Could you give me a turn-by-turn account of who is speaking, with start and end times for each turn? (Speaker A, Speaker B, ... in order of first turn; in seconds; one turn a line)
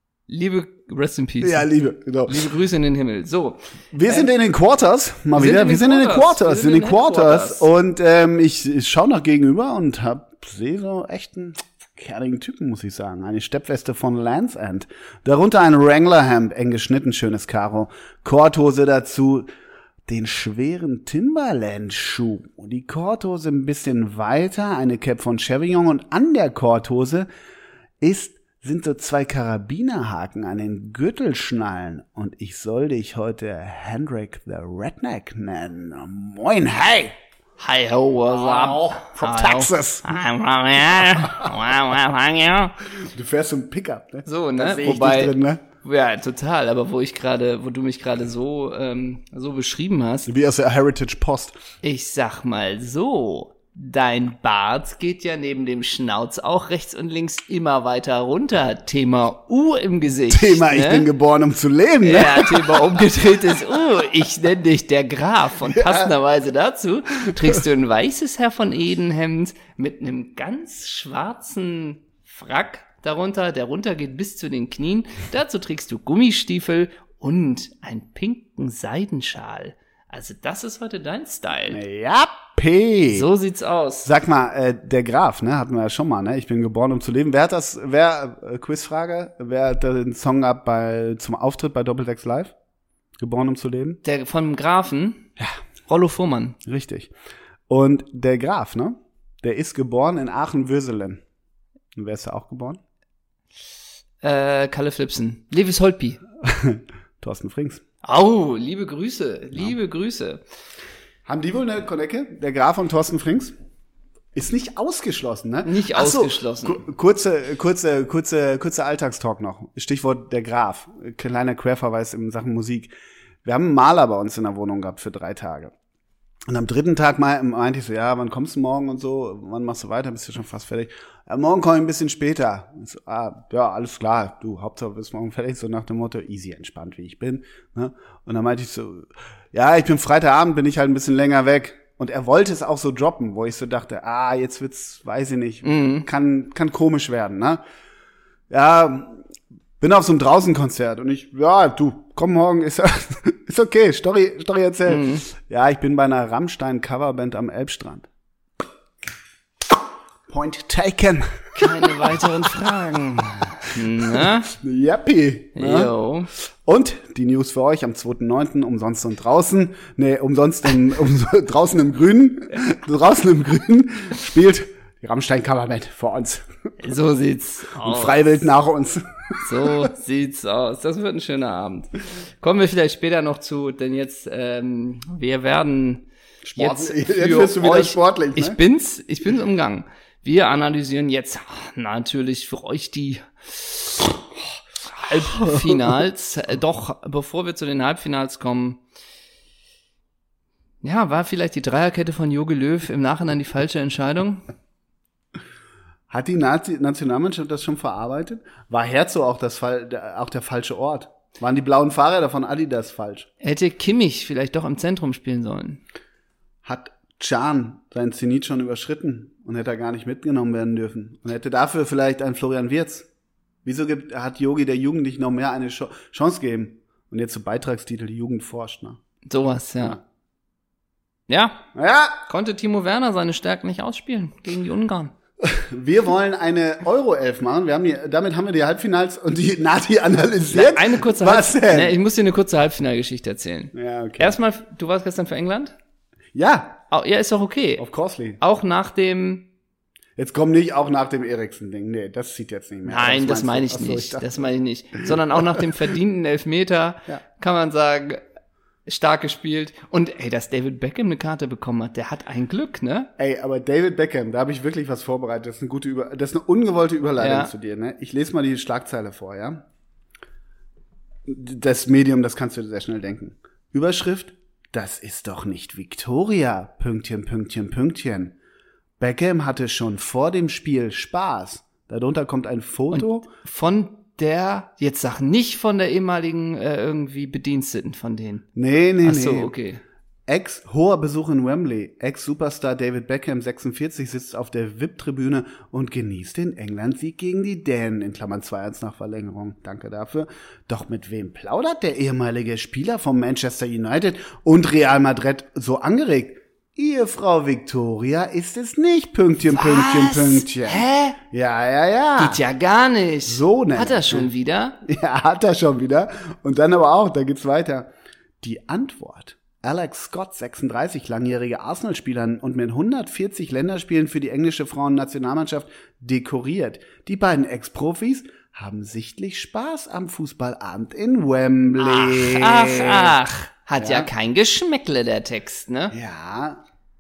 Speaker A: 0.3-1.7
Speaker B: 1.4-2.5
Speaker A: 2.3-4.3
Speaker B: 3.9-19.5
Speaker A: 5.3-7.7
Speaker B: 20.1-27.3
Speaker B: 28.0-37.2
Speaker A: 37.6-42.8
Speaker B: 38.3-40.1
Speaker B: 40.9-41.6
Speaker B: 42.9-45.6
Speaker A: 44.2-50.3
Speaker B: 50.3-51.6
Speaker A: 51.8-61.1
Speaker B: 60.3-63.6
Speaker A: 62.0-81.8
Speaker B: 65.6-66.1
Speaker B: 67.3-67.6
Speaker B: 81.7-83.3
Speaker A: 83.1-84.1
Speaker B: 84.0-92.5
Speaker B: 93.2-94.0
Speaker A: 94.0-95.3
Speaker A: 95.9-96.6
Speaker B: 96.7-97.1
Speaker B: 97.7-101.2
Speaker B: 102.0-102.8
Speaker A: 104.2-106.2
Speaker B: 106.4-107.8
Speaker A: 108.0-110.4
Speaker B: 111.3-113.5
Speaker B: 114.3-122.9
Speaker A: 115.7-116.8
Speaker B: 123.4-125.7
Speaker B: 126.5-147.6
Speaker A: 145.6-146.1
Speaker B: 148.5-149.2
Speaker B: 149.8-158.1
Speaker A: 154.9-155.3
Speaker B: 160.3-162.3
Speaker A: 161.6-164.5
Speaker B: 164.1-165.9
Speaker A: 165.6-166.3
Speaker B: 166.6-176.5
Speaker A: 176.8-178.5
Speaker B: 177.8-179.9
Speaker A: 179.4-194.1
Speaker B: 186.4-188.6
Speaker A: 195.0-198.8
Speaker B: 195.2-195.9
Speaker A: 200.8-204.4
Speaker B: 206.1-213.3
Speaker A: 213.4-215.8
Speaker B: 216.6-223.1
Speaker B: 223.7-229.0
Speaker A: 229.3-230.0
Speaker A: 231.3-231.6
Speaker B: 231.8-232.2
Speaker A: 232.3-235.1
Speaker B: 235.4-242.0
Speaker A: 240.5-245.8
Speaker B: 243.7-244.4
Speaker B: 246.3-246.8
Speaker A: 246.9-247.8
Speaker B: 247.8-248.4
Speaker A: 248.4-249.5
Speaker B: 250.2-254.5
Speaker A: 252.9-258.2
Speaker B: 255.1-255.7
Speaker A: 258.9-263.1
Speaker B: 263.2-269.6
Speaker A: 267.2-267.5
Speaker B: 271.3-278.4
Speaker B: 279.0-283.3
Speaker A: 282.9-288.4
Speaker B: 288.6-289.5
Speaker A: 289.0-289.8
Speaker B: 290.3-312.4
Speaker A: 309.5-311.2
Speaker A: 312.2-314.8
Speaker B: 313.3-314.3
Speaker B: 314.8-333.2
Speaker A: 331.8-336.0
Speaker B: 333.8-334.1
Speaker B: 335.9-336.6